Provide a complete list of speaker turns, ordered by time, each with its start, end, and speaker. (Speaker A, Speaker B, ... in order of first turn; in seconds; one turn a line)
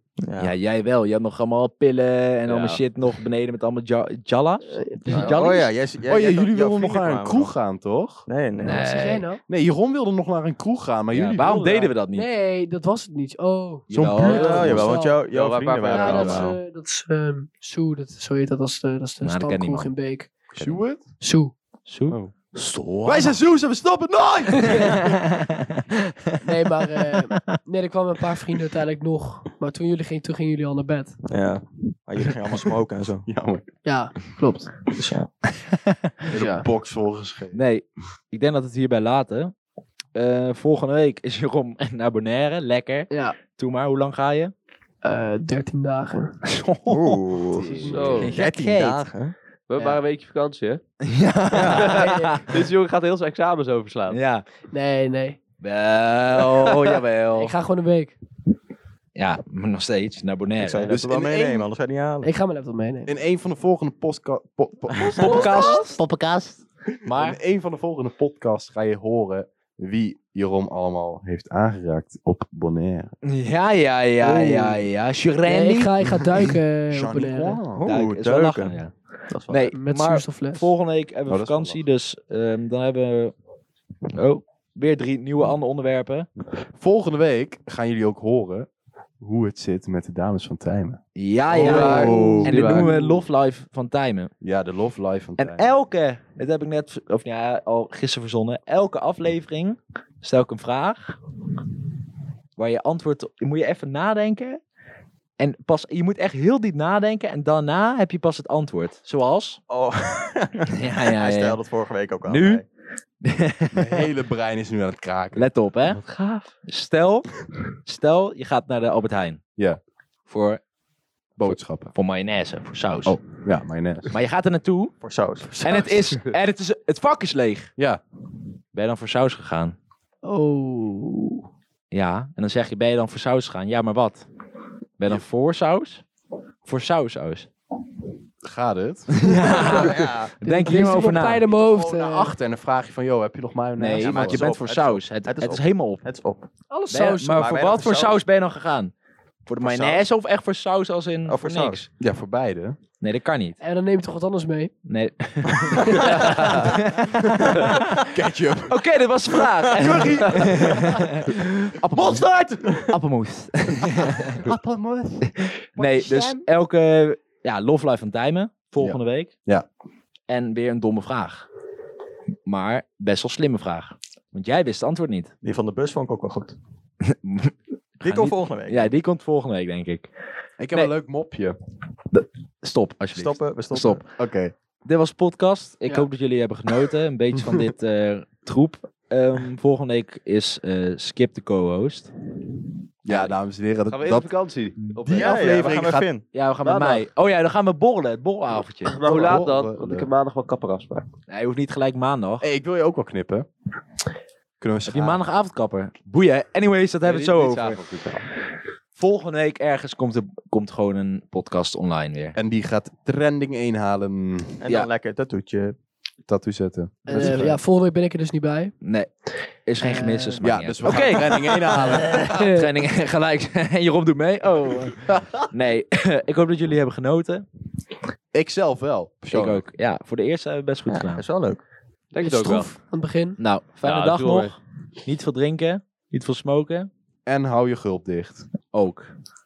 Speaker A: 0.2-0.5
Speaker B: 0.4-5.7
Speaker C: 2.5-2.8
Speaker D: 4.7-5.4
Speaker A: 5.2-7.5
Speaker E: 6.1-8.2
Speaker A: 8.3-8.8
Speaker B: 8.6-9.3
Speaker D: 8.7-9.4
Speaker E: 9.5-11.9
Speaker B: 11.1-12.3
Speaker C: 11.4-11.8
Speaker D: 12.1-15.2
Speaker B: 13.9-14.9
Speaker E: 13.9-14.8
Speaker A: 14.2-16.6
Speaker C: 15.3-16.5
Speaker D: 15.9-20.4
Speaker B: 19.2-19.9
Speaker E: 20.5-21.1
Speaker D: 21.2-21.5
Speaker B: 21.9-23.4
Speaker E: 23.0-25.2
Speaker B: 24.6-27.6
Speaker D: 26.4-31.2
Speaker A: 31.3-33.2
Speaker E: 33.3-33.6
Speaker D: 33.8-34.7
Speaker A: 35.0-35.3
Speaker B: 35.7-36.0
Speaker E: 36.3-37.6
Speaker D: 36.4-36.6
Speaker B: 37.5-39.5
Speaker B: 40.1-44.5
Speaker D: 43.1-43.4
Speaker D: 45.0-46.4
Speaker B: 46.4-49.0
Speaker A: 46.9-49.3
Speaker D: 47.7-48.3
Speaker C: 47.9-48.3
Speaker C: 49.7-50.8
Speaker B: 51.0-52.7
Speaker A: 51.5-51.9
Speaker C: 51.6-54.2
Speaker D: 51.9-52.4
Speaker B: 54.1-54.4
Speaker D: 54.7-55.4
Speaker B: 55.6-57.5
Speaker D: 57.4-58.1
Speaker B: 59.1-61.0
Speaker A: 60.6-62.3
Speaker E: 60.9-61.6
Speaker D: 62.2-63.1
Speaker E: 63.0-65.8
Speaker B: 65.0-67.4
Speaker D: 65.5-65.8
Speaker E: 67.0-73.1
Speaker B: 73.2-75.9
Speaker A: 74.2-74.7
Speaker D: 75.5-77.6
Speaker E: 76.2-77.8
Speaker A: 77.7-78.8
Speaker B: 77.8-78.9
Speaker A: 79.3-79.7
Speaker B: 79.5-83.3
Speaker D: 79.7-80.7
Speaker E: 81.3-81.8
Speaker B: 84.1-86.3
Speaker E: 86.7-88.7
Speaker E: 89.2-91.0
Speaker B: 91.1-94.3
Speaker E: 91.5-92.3
Speaker A: 91.6-92.8
Speaker C: 91.6-92.9
Speaker D: 92.7-93.2
Speaker E: 94.4-95.7
Speaker B: 95.4-101.2
Speaker B: 102.6-104.6
Speaker B: 105.4-109.6
Speaker A: 109.7-112.6
Speaker B: 110.7-111.6
Speaker B: 112.3-112.6
Speaker B: 113.2-114.1
Speaker E: 113.7-115.5
Speaker B: 115.3-116.0
Speaker C: 115.9-116.5
Speaker B: 116.6-119.4
Speaker B: 120.3-120.6
Speaker B: 121.4-123.2
Speaker E: 121.4-121.9
Speaker E: 123.0-124.1
Speaker B: 124.1-124.9
Speaker A: 125.0-125.5
Speaker D: 125.5-125.9
Speaker B: 125.6-127.7
Speaker B: 128.7-129.8
Speaker D: 130.2-131.4
Speaker B: 131.9-134.2
Speaker B: 135.0-136.0
Speaker B: 136.6-137.5
Speaker E: 138.4-139.7
Speaker B: 139.1-141.4
Speaker A: 139.4-140.3
Speaker D: 139.5-139.9
Speaker D: 140.4-142.3
Speaker E: 141.5-144.6
Speaker B: 143.8-146.0
Speaker A: 144.0-146.5
Speaker D: 146.7-147.4
Speaker B: 146.9-148.9
Speaker A: 147.2-148.2
Speaker B: 149.4-151.9
Speaker A: 149.6-150.0
Speaker A: 151.3-151.8
Speaker E: 152.0-152.8
Speaker B: 153.0-153.6
Speaker D: 153.6-154.7
Speaker B: 154.8-158.1
Speaker D: 155.8-156.5
Speaker C: 156.1-156.4
Speaker E: 157.2-158.8
Speaker B: 158.7-164.4
Speaker E: 159.3-163.0
Speaker E: 163.8-166.4
Speaker B: 165.2-169.3
Speaker E: 168.8-169.7
Speaker B: 170.3-171.5
Speaker B: 172.5-175.3
Speaker A: 175.4-176.6
Speaker B: 177.0-180.1
Speaker A: 178.0-178.9
Speaker E: 180.6-181.6
Speaker B: 182.1-184.1
Speaker A: 183.1-184.0
Speaker E: 184.1-184.5
Speaker B: 184.8-192.1
Speaker E: 187.4-187.7
Speaker E: 193.0-194.3
Speaker B: 193.1-193.3
Speaker C: 193.9-195.6
Speaker E: 195.0-196.1
Speaker A: 195.1-196.2
Speaker B: 196.3-199.0
Speaker C: 196.6-197.0
Speaker C: 198.8-201.1
Speaker E: 199.0-200.1
Speaker B: 201.3-202.5
Speaker E: 202.4-203.5
Speaker E: 204.6-205.2
Speaker B: 204.8-207.8
Speaker C: 207.0-208.2
Speaker B: 208.9-212.4
Speaker E: 212.3-214.6
Speaker A: 214.6-215.8
Speaker E: 216.3-217.6
Speaker D: 217.1-218.7
Speaker B: 217.2-217.4
Speaker B: 218.8-219.1
Speaker B: 219.6-227.4
Speaker D: 219.8-220.4
Speaker E: 220.4-222.3
Speaker D: 222.1-222.7
Speaker E: 225.0-225.4
Speaker E: 228.3-229.6
Speaker B: 229.3-231.2
Speaker A: 230.9-231.6
Speaker C: 232.1-232.7
Speaker D: 232.2-233.4
Speaker B: 233.4-236.9
Speaker C: 233.8-234.5
Speaker E: 237.2-238.5
Speaker B: 238.7-239.1